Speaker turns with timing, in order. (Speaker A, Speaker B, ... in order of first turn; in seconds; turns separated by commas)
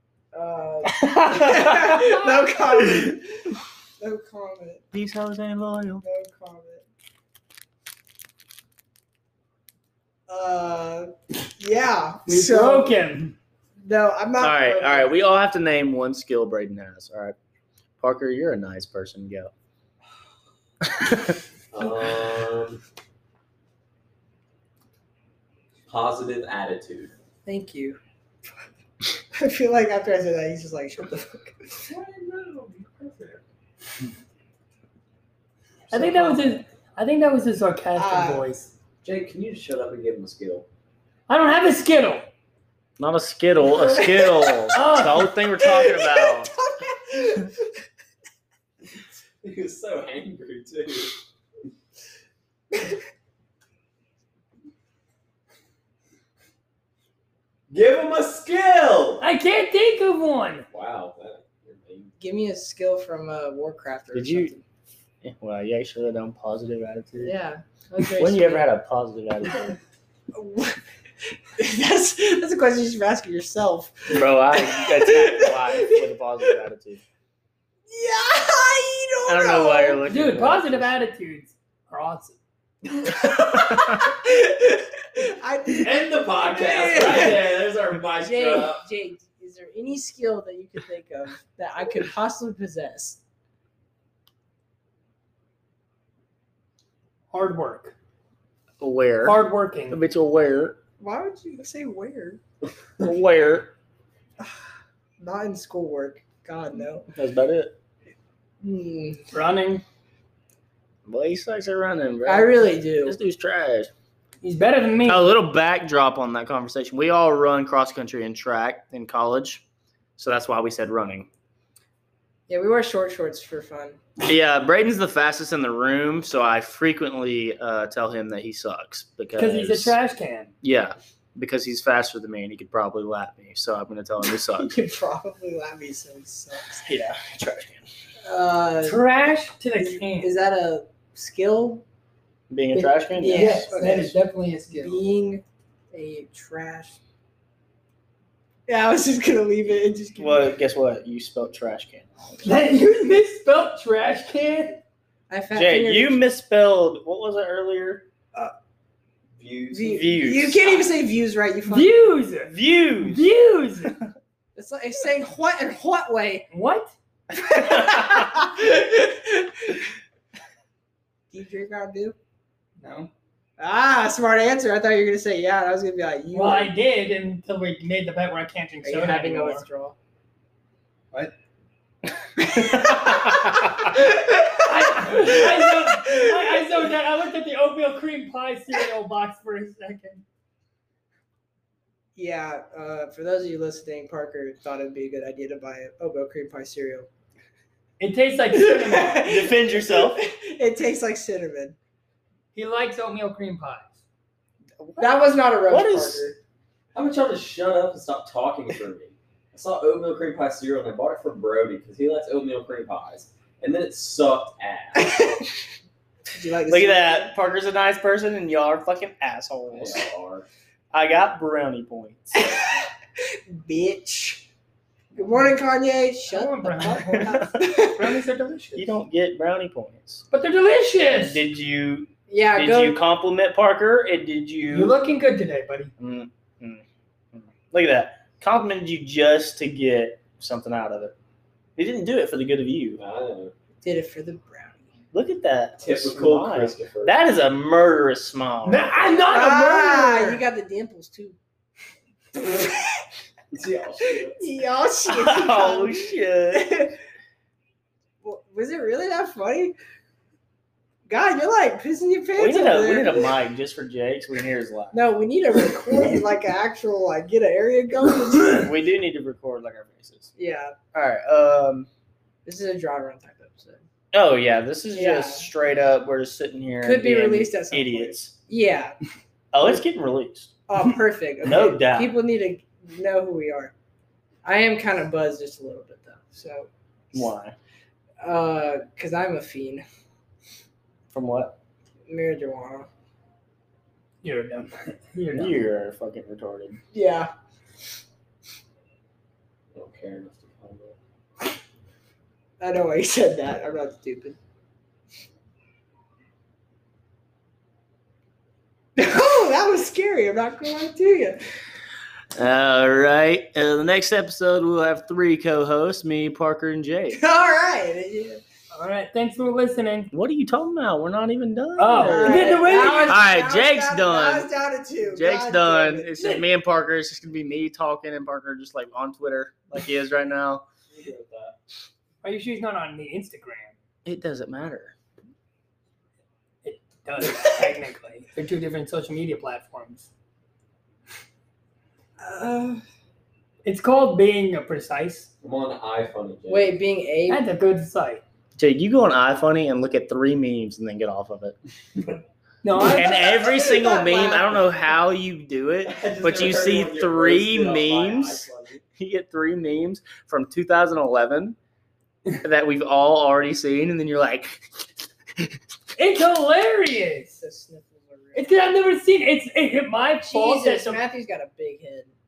Speaker A: 0.3-4.8, Speaker B: 0.9-3.1, Speaker B: 4.9-6.0, Speaker A: 6.0-6.8, Speaker A: 10.3-13.0, Speaker C: 12.3-13.3, Speaker A: 13.8-15.2, Speaker B: 14.4-17.4, Speaker B: 18.0-19.5, Speaker B: 20.9-21.3, Speaker D: 21.7-22.8, Speaker D: 25.9-27.1, Speaker A: 27.5-28.0, Speaker A: 29.3-31.9, Speaker D: 31.8-33.4, Speaker C: 35.9-38.7, Speaker A: 35.9-36.5, Speaker A: 38.0-38.5, Speaker D: 39.0-40.7, Speaker C: 41.3-42.3, Speaker B: 43.0-46.5, Speaker A: 43.6-45.0, Speaker C: 44.7-45.3, Speaker A: 45.6-47.7, Speaker D: 49.4-51.2, Speaker D: 57.7-59.2, Speaker C: 59.2-60.7, Speaker D: 60.7-62.1, Speaker A: 62.2-64.6, Speaker B: 64.1-64.5, Speaker B: 65.2-67.3, Speaker A: 67.2-68.7, Speaker B: 68.0-69.8, Speaker A: 70.3-70.8, Speaker A: 71.6-76.1, Speaker B: 74.1-77.0, Speaker A: 77.9-80.0, Speaker B: 79.3-80.9, Speaker C: 80.0-82.3, Speaker A: 82.9-87.6, Speaker B: 83.3-84.0, Speaker D: 85.7-88.8, Speaker A: 88.2-93.2, Speaker C: 97.3-97.9, Speaker B: 98.8-100.8, Speaker C: 99.2-100.0, Speaker A: 101.0-102.4, Speaker B: 103.0-103.7, Speaker A: 105.2-107.1, Speaker B: 107.1-107.7, Speaker A: 108.6-109.2, Speaker C: 109.3-109.8, Speaker B: 111.1-113.9, Speaker A: 112.2-113.2, Speaker C: 114.4-115.3, Speaker B: 115.1-119.6, Speaker B: 120.2-121.3, Speaker A: 122.5-124.0, Speaker B: 124.2-130.0, Speaker C: 129.4-130.5, Speaker B: 130.6-134.7, Speaker A: 134.6-136.9, Speaker B: 136.8-137.8, Speaker A: 138.2-139.0, Speaker C: 138.8-140.3, Speaker A: 139.8-141.8, Speaker B: 142.5-143.7, Speaker C: 142.8-145.0, Speaker A: 143.2-144.2, Speaker A: 144.7-147.0, Speaker A: 148.7-150.6, Speaker B: 150.2-152.5, Speaker C: 152.4-154.8, Speaker A: 155.3-156.2, Speaker B: 155.5-158.1, Speaker D: 159.4-160.0, Speaker A: 159.7-162.0, Speaker B: 159.9-160.9, Speaker C: 161.7-163.9, Speaker B: 162.4-163.3, Speaker A: 164.6-166.5, Speaker C: 166.5-166.9, Speaker A: 167.3-169.8, Speaker B: 167.5-168.2, Speaker A: 171.3-172.2, Speaker C: 172.8-173.1, Speaker A: 173.6-176.7, Speaker C: 176.3-179.7, Speaker A: 178.8-180.0, Speaker A: 182.4-186.8, Speaker B: 182.4-183.8, Speaker C: 184.6-190.2, Speaker A: 192.2-197.1, Speaker C: 198.0-199.2, Speaker A: 198.5-201.8, Speaker B: 199.2-200.2, Speaker C: 202.6-203.9, Speaker B: 204.8-206.3, Speaker A: 205.0-206.4, Speaker D: 206.9-215.2, Speaker A: 215.0-215.5, Speaker A: 216.3-217.3, Speaker B: 216.7-220.1, Speaker D: 219.7-220.5, Speaker B: 220.9-222.4, Speaker A: 222.3-224.4, Speaker A: 225.2-228.1, Speaker C: 226.3-228.9, Speaker B: 227.3-227.7, Speaker B: 228.8-230.2, Speaker C: 230.3-231.4, Speaker B: 231.1-234.9, Speaker A: 232.3-233.0, Speaker C: 234.7-235.9, Speaker B: 236.0-236.8, Speaker B: 237.3-241.1, Speaker B: 241.8-243.0, Speaker D: 243.0-243.5, Speaker A: 243.8-244.8, Speaker B: 245.1-249.0, Speaker D: 245.8-247.1, Speaker C: 248.7-250.4, Speaker A: 249.3-251.4, Speaker A: 252.4-253.0, Speaker D: 253.5-254.4, Speaker A: 254.3-257.0, Speaker B: 255.1-256.7, Speaker A: 258.2-259.8, Speaker A: 261.1-263.3, Speaker B: 262.4-265.0, Speaker A: 264.9-268.7, Speaker B: 268.5-270.3, Speaker A: 270.4-270.8, Speaker B: 270.9-271.9, Speaker A: 272.4-273.8, Speaker B: 274.1-278.3, Speaker A: 274.9-275.5, Speaker A: 276.8-279.0, Speaker B: 279.5-280.5, Speaker A: 280.7-283.7, Speaker B: 281.4-282.1, Speaker A: 284.4-287.3, Speaker B: 287.1-287.5, Speaker A: 288.2-289.9, Speaker B: 291.1-291.6, Speaker A: 292.1-292.9, Speaker C: 294.2-295.5, Speaker B: 295.3-296.8, Speaker A: 296.9-297.3, Speaker D: 299.7-301.0, Speaker A: 302.6-304.4, Speaker A: 309.0-311.4, Speaker B: 312.4-317.2, Speaker A: 317.1-318.4, Speaker C: 318.7-320.1, Speaker B: 320.1-324.5, Speaker C: 321.8-323.2, Speaker A: 322.0-326.1, Speaker B: 325.1-330.6, Speaker D: 330.9-331.6, Speaker C: 332.2-333.7, Speaker B: 334.1-334.9, Speaker C: 336.6-340.1, Speaker A: 342.2-342.8, Speaker C: 343.6-345.3, Speaker D: 345.4-346.8, Speaker A: 346.5-347.4, Speaker C: 347.3-348.2, Speaker B: 348.6-351.6, Speaker C: 352.6-353.3, Speaker A: 352.9-354.6, Speaker B: 352.9-361.6, Speaker D: 355.8-358.8, Speaker B: 362.4-364.9, Speaker C: 366.0-367.4, Speaker A: 367.3-368.6, Speaker C: 368.4-371.0, Speaker A: 370.3-372.1